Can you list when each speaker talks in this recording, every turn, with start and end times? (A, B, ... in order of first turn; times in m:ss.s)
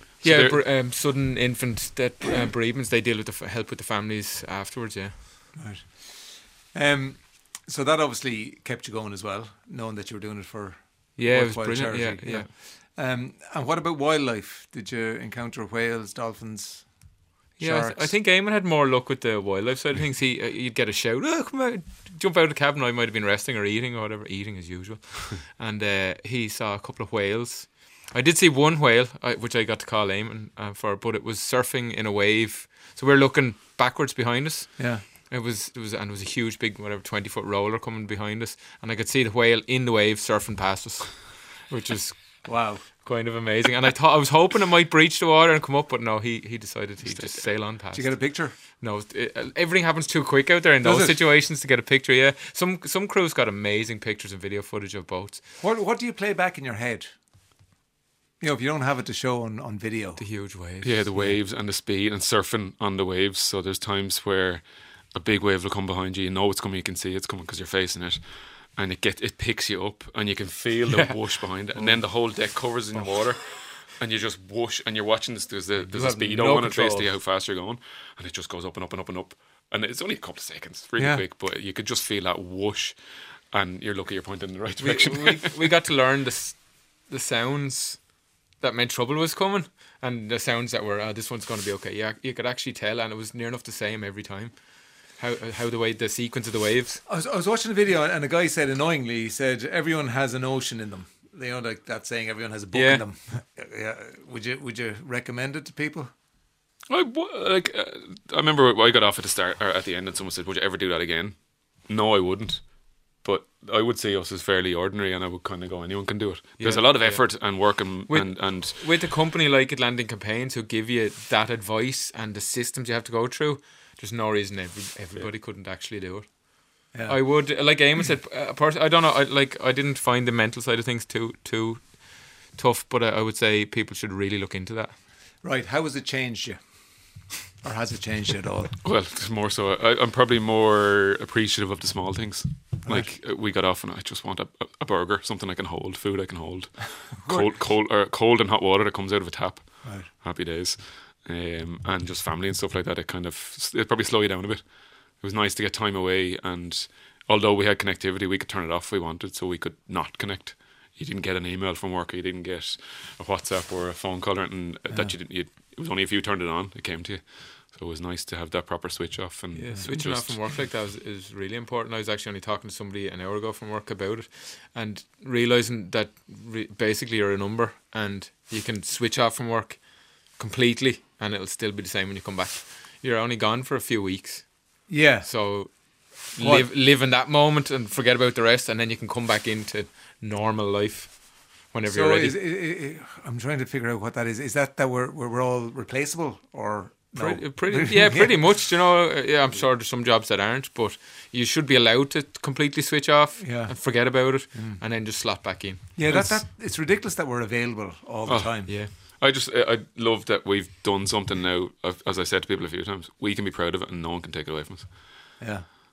0:00.2-0:00.6 A
0:00.2-0:05.5 B
0:05.5-0:18.2 C
0:11.2-0:12.5 B
0:17.6-0:55.4 B
0:34.8-0:35.0 C
0:42.4-0:42.8 C
0:47.0-0:47.3 A
0:47.6-0:48.6 C
0:50.8-0:51.2 C
0:55.6-0:57.1 C
0:58.4-1:00.2 C
1:00.2-1:01.3 B
1:00.8-1:23.0 A
1:10.9-1:12.0 B
1:15.8-1:17.1 B
1:21.0-1:21.2 C
1:23.5-1:25.5 A
1:24.8-1:37.0 B
1:37.1-1:46.1 C
1:42.7-1:43.0 B
1:46.9-1:58.8 A
1:56.6-2:15.0 B
2:15.4-2:16.6 C
2:17.6-2:18.8 C
2:18.8-2:34.6 A
2:29.8-2:30.1 C
2:35.2-2:50.4 A
2:49.5-3:12.4 B
3:04.9-3:05.5 C
3:06.4-3:06.7 C
3:11.8-3:18.3 C
3:17.1-3:26.4 B
3:23.4-3:24.8 C
3:26.0-3:28.7 C
3:28.2-3:35.0 A
3:28.7-3:28.9 B
3:35.4-3:35.7 C